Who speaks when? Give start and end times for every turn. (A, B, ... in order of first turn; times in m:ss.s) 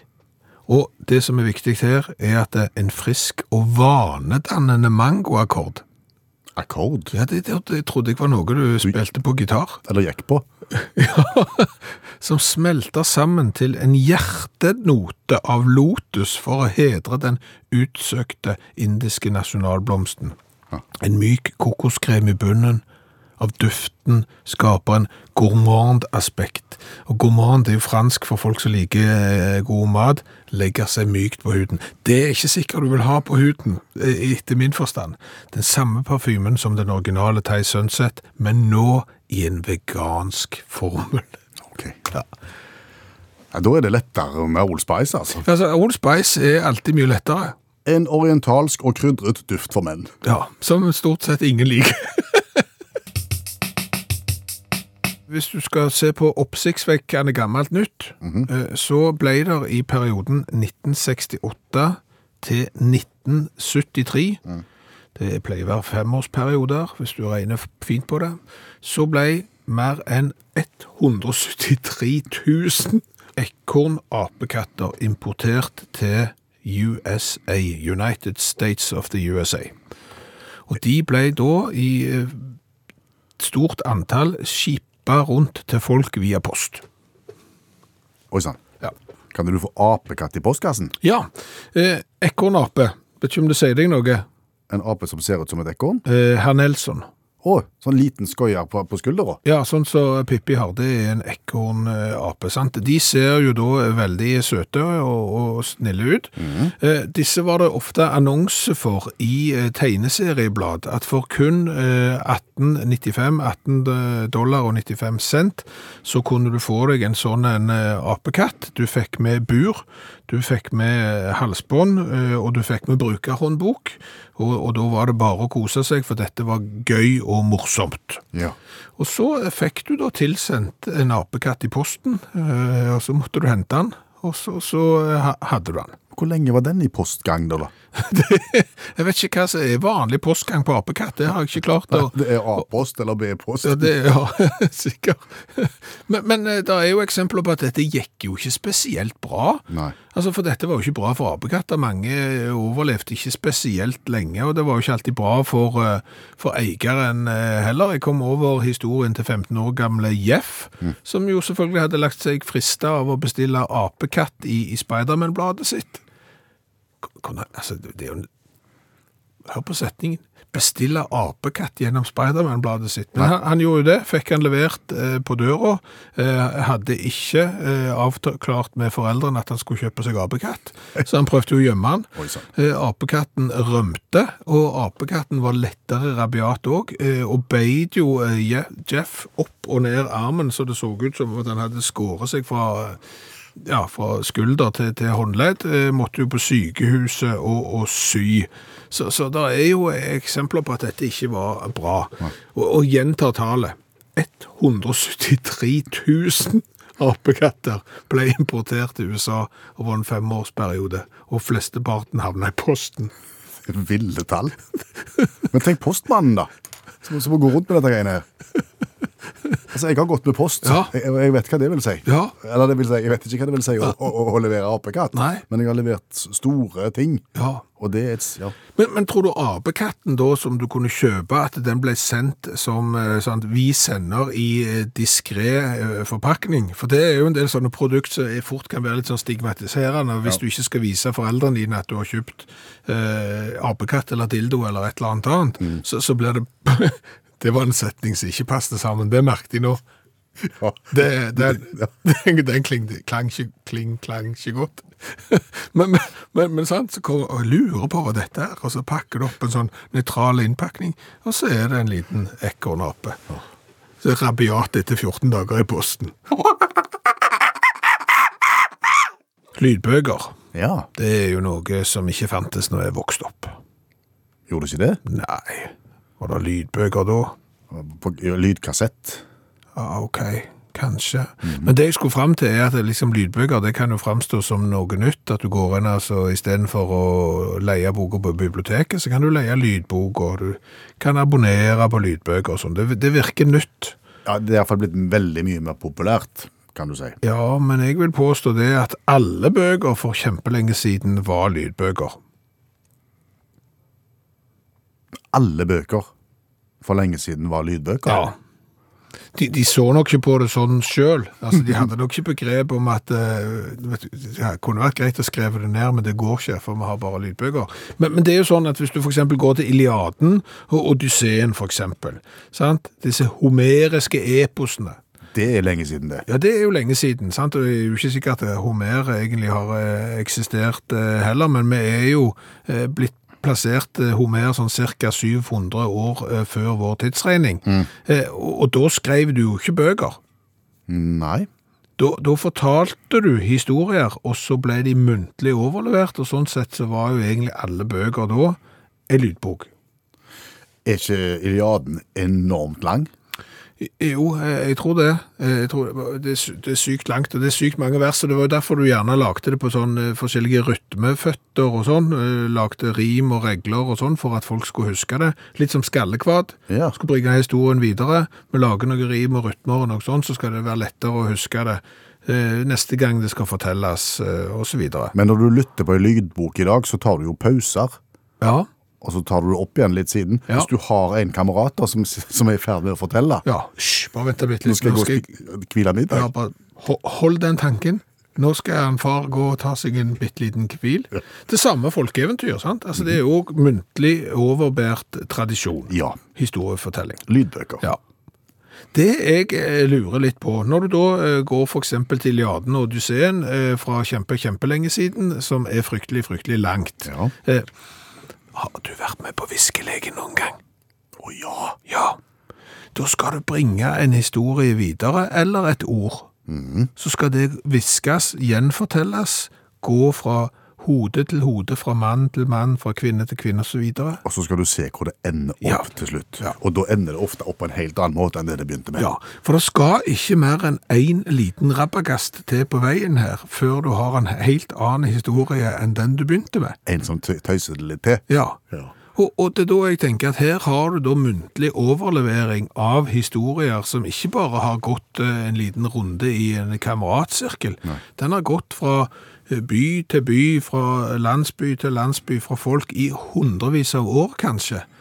0:00.7-0:05.8 A
0:06.5-0:07.1 B
0:07.1-0:09.8 A
0:09.8-0:10.4 B
0:10.7-0:20.4 A
0:21.0-0:22.8 A
0:23.4-0:41.4 A
0:41.7-0:42.0 B
0:43.5-0:45.4 B
0:45.4-0:47.5 A
0:47.8-0:50.1 B
0:50.2-0:52.6 A
0:55.3-1:04.4 A
0:58.2-0:58.5 B
1:05.2-1:19.7 A
1:20.7-1:22.6 A
1:23.4-1:26.8 A
1:28.3-1:28.6 B
1:29.3-1:30.9 B
1:31.0-1:34.2 A
1:34.7-1:36.0 B
1:36.0-1:37.1 A
1:37.4-1:39.4 B
1:39.4-2:08.2 A
1:46.4-1:46.7 B
2:09.0-2:16.0 A
2:16.1-2:17.7 B
2:18.0-2:22.6 A
2:21.9-2:23.9 B
2:23.6-2:46.0 A
2:29.7-2:30.0 B
2:47.1-2:48.3 A
2:49.4-3:13.0 A
3:02.2-3:02.4 B
3:13.6-3:33.1 A
3:33.6-3:34.6 B
3:35.5-3:36.5 B
3:37.0-3:38.2 B
3:39.7-3:47.2 B
3:40.6-3:40.9 A
3:42.0-3:42.3 A
3:45.1-3:45.4 A
3:47.4-3:47.6 A
3:47.8-3:48.5 B
3:48.8-4:09.8 A
4:10.6-4:11.8 B
4:10.9-4:23.2 A
4:24.0-4:26.1 A
4:29.6-4:30.3 A
4:30.5-4:30.9 B
4:31.0-4:33.6 A
4:34.5-4:35.0 B
4:35.1-4:37.3 A
4:37.7-4:39.2 B
4:39.8-4:54.0 A
4:41.4-4:41.7 B
4:54.2-4:57.2 B
4:57.2-5:02.2 A
5:05.3-5:06.1 B
5:06.8-5:08.3 B
5:08.0-5:08.3 A
5:09.3-5:25.0 A
5:25.3-5:26.2 B
5:26.3-5:40.2 A
5:40.9-5:41.5 B
5:42.0-5:48.6 A
5:49.1-5:49.7 A
5:50.8-5:53.1 B
5:53.8-6:15.1 A
6:06.7-6:06.9 B
6:15.1-6:18.0 B
6:18.4-6:18.7 A
6:19.0-6:23.4 B
6:23.4-6:25.3 A
6:24.6-6:26.3 B
6:26.1-6:37.2 A
6:35.9-6:36.2 B
6:37.3-6:37.8 B
6:38.9-6:47.6 A
6:47.0-6:47.3 B
6:48.5-6:50.6 A
6:51.2-6:51.8 B
6:51.9-6:52.2 A
6:52.9-6:56.3 A
6:56.5-6:56.9 B
6:57.0-7:04.2 A
7:04.2-7:09.1 B
7:09.0-7:16.8 A
7:16.8-7:18.9 B
7:18.3-7:18.6 A
7:19.1-7:34.8 A